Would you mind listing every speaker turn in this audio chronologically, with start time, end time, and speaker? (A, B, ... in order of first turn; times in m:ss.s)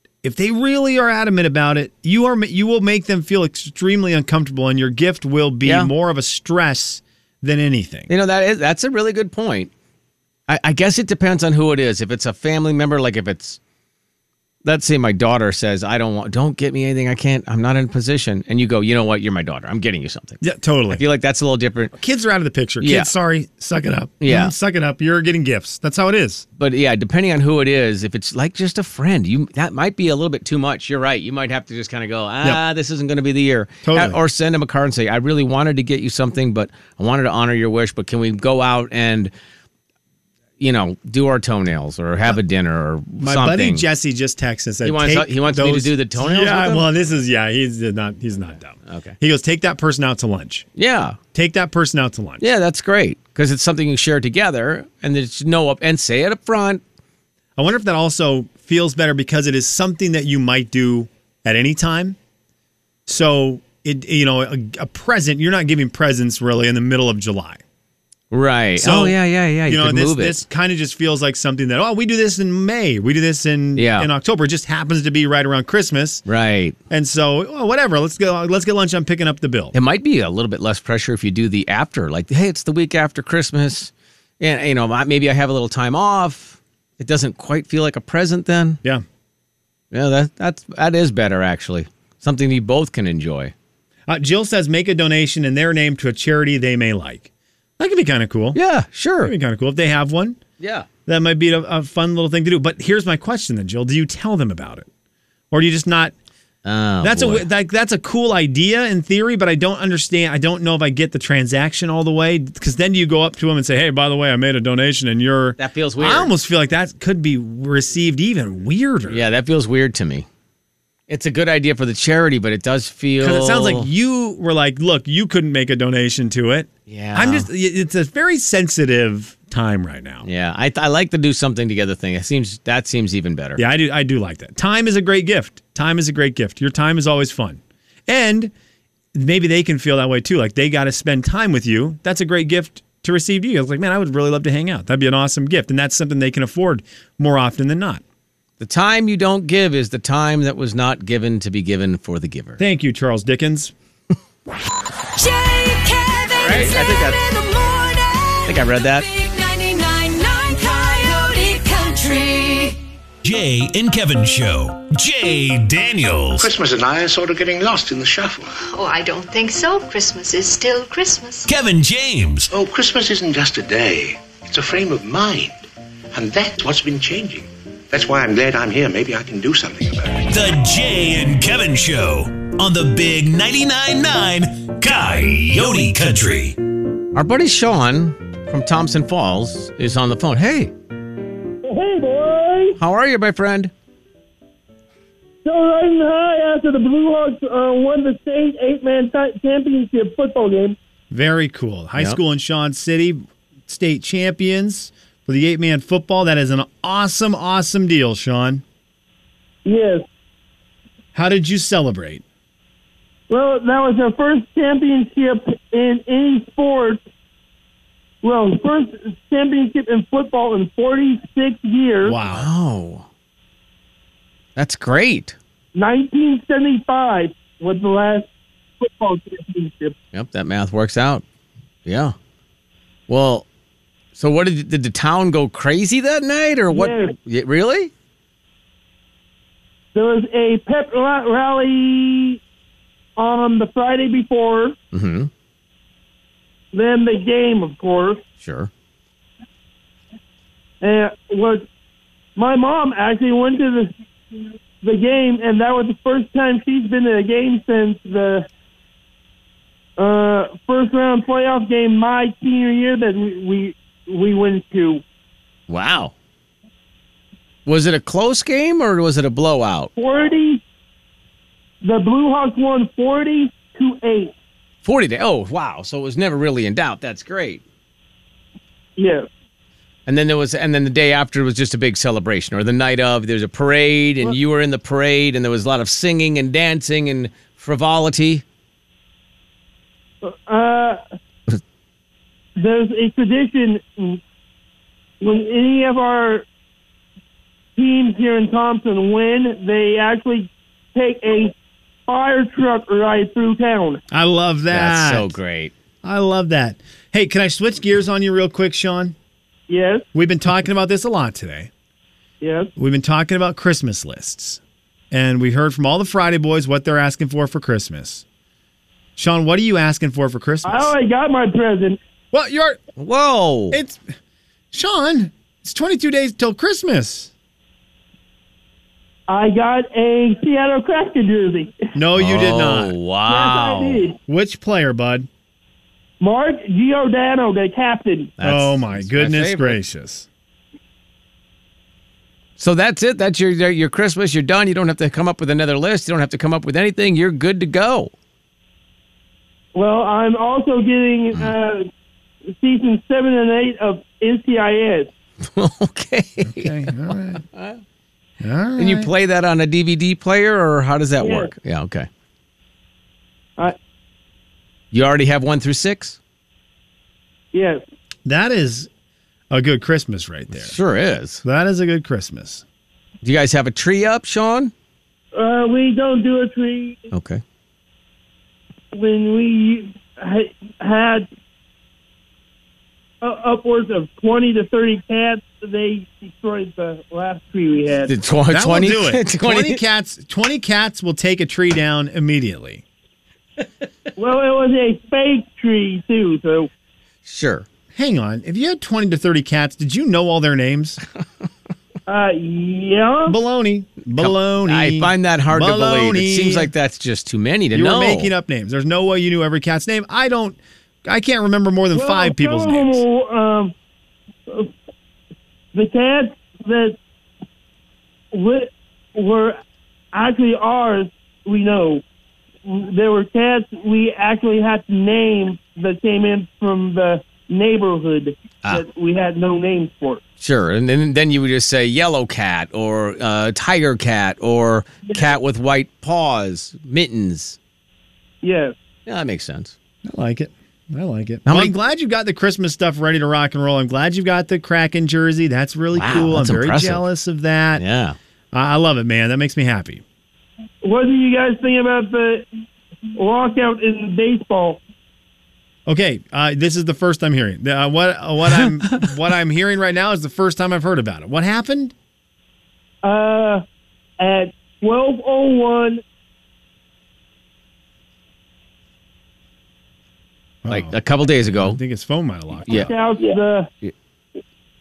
0:00.2-0:08.1 A
0:05.6-0:05.9 B
0:08.1-0:09.7 B
0:10.5-0:13.6 B
0:14.6-0:21.9 B
0:20.4-0:21.0 A
0:21.9-0:26.4 A
0:22.8-0:23.1 B
0:24.2-0:24.5 B
0:26.6-0:39.3 B
0:33.8-0:34.2 A
0:40.6-0:43.8 B
0:43.2-0:50.6 A
0:44.8-0:46.9 B
0:48.8-0:49.2 B
0:50.8-0:51.2 B
0:51.3-0:52.5 A
0:52.4-0:56.8 B
0:57.6-1:02.2 A
1:03.1-1:07.6 A
1:08.3-1:10.4 B
1:08.8-1:16.2 A
1:13.8-1:14.1 B
1:16.2-1:16.8 B
1:16.9-1:19.7 A
1:19.7-1:28.8 B
1:29.9-1:33.5 B
1:34.1-1:38.6 A
1:38.5-1:39.3 B
1:39.2-1:40.4 A
1:40.6-1:40.9 B
1:41.0-1:44.9 A
1:45.5-1:46.1 A
1:46.6-1:47.4 B
1:47.0-1:59.2 A
1:55.6-1:56.3 B
1:59.1-2:00.3 B
2:01.1-2:03.9 B
2:03.2-2:10.2 A
2:06.9-2:07.5 B
2:10.2-2:13.6 B
2:13.6-2:18.5 A
2:19.1-2:28.0 A
2:28.6-2:32.6 B
2:32.6-2:33.7 A
2:35.1-2:42.8 C
2:36.3-2:37.2 B
2:38.4-2:39.0 B
2:43.2-2:46.5 D
2:46.4-2:48.5 E
2:48.7-2:51.5 F
2:51.4-2:52.5 D
2:52.5-3:00.2 E
3:00.3-3:06.6 D
3:07.1-3:10.7 B
3:11.6-3:12.8 G
3:12.8-3:13.7 B
3:15.4-3:20.8 G
3:21.1-3:28.6 A
3:29.6-3:30.0 G
3:31.1-3:32.2 A
3:33.3-3:37.0 G
3:38.2-3:42.2 G
3:42.0-3:42.5 A
3:42.3-3:43.1 B
3:44.6-3:45.4 B
3:45.7-3:48.3 G
3:48.8-3:49.9 G
3:50.1-3:51.2 B
3:51.8-3:52.1 B
3:53.1-3:53.4 B
3:54.1-3:57.9 B
3:56.7-3:57.1 G
3:59.9-4:02.4 G
4:03.2-4:04.8 G
4:04.9-4:05.3 B
4:06.7-4:08.2 G
4:08.4-4:08.7 B
4:10.8-4:11.6 G
4:12.4-4:13.9 G
4:14.8-4:18.5 G
4:20.0-4:25.0 G
4:25.7-4:26.1 B
4:27.6-4:29.9 B
4:30.0-4:30.6 G
4:31.8-4:34.3 G
4:34.8-4:37.6 B
4:39.0-4:39.3 G
4:40.0-4:48.4 B
4:50.2-4:51.0 G
4:52.6-4:54.2 G
4:55.2-4:56.4 G
4:57.8-5:01.5 G
5:02.1-5:04.0 G
5:04.1-5:05.3 A
5:04.7-5:05.7 B
5:06.0-5:09.2 A
5:09.7-5:10.0 G
5:10.1-5:11.7 A
5:12.4-5:12.7 G
5:12.8-5:14.6 A
5:15.1-5:18.2 A
5:19.2-5:20.9 A
5:20.6-5:22.0 G
5:22.3-5:22.8 A
5:23.0-5:23.8 B
5:23.7-5:24.0 A
5:24.7-5:27.3 A
5:29.3-5:31.9 G
5:31.9-5:32.9 A
5:32.2-5:34.1 B
5:33.3-5:34.2 G
5:34.3-5:35.3 A
5:36.2-5:38.3 G
5:38.4-5:39.8 B
5:38.4-5:40.3 A
5:42.6-5:48.1 B
5:49.7-5:51.9 G
5:52.5-5:55.1 G
5:55.4-5:57.8 B
5:56.4-5:57.4 A
5:58.4-5:59.1 A
5:58.8-6:02.1 B
6:01.2-6:01.5 G
6:04.9-6:06.2 B
6:07.5-6:07.8 G
6:08.2-6:08.9 A
6:09.5-6:10.7 A
6:10.5-6:11.4 B
6:11.4-6:12.6 A
6:13.2-6:14.7 B
6:15.3-6:17.0 G
6:17.1-6:17.4 B
6:18.9-6:21.3 G
6:23.2-6:28.1 G
6:28.0-6:29.8 B
6:28.5-6:32.8 A
6:34.2-6:36.7 G
6:37.2-6:37.7 B
6:37.9-6:41.0 A
6:42.1-6:43.4 G
6:43.3-6:46.7 A
6:44.2-6:48.3 B
6:47.7-6:53.0 A
6:51.9-6:53.7 G
6:55.7-6:57.0 G
6:58.3-6:59.6 G
7:00.1-7:02.0 G
7:02.6-7:10.2 G
7:10.4-7:17.6 B
7:18.4-7:18.7 G
7:19.0-7:19.7 B
7:20.0-7:27.8 A
7:21.4-7:21.7 B
7:25.9-7:27.0 B
7:27.8-7:28.2 B
7:28.5-7:30.0 A
7:30.8-7:32.5 G
7:33.1-7:34.8 G
7:35.8-7:41.9 A
7:43.0-7:43.6 G
7:44.2-7:46.0 G
7:50.6-7:52.9 A
7:50.7-7:51.8 B
7:52.7-7:53.7 G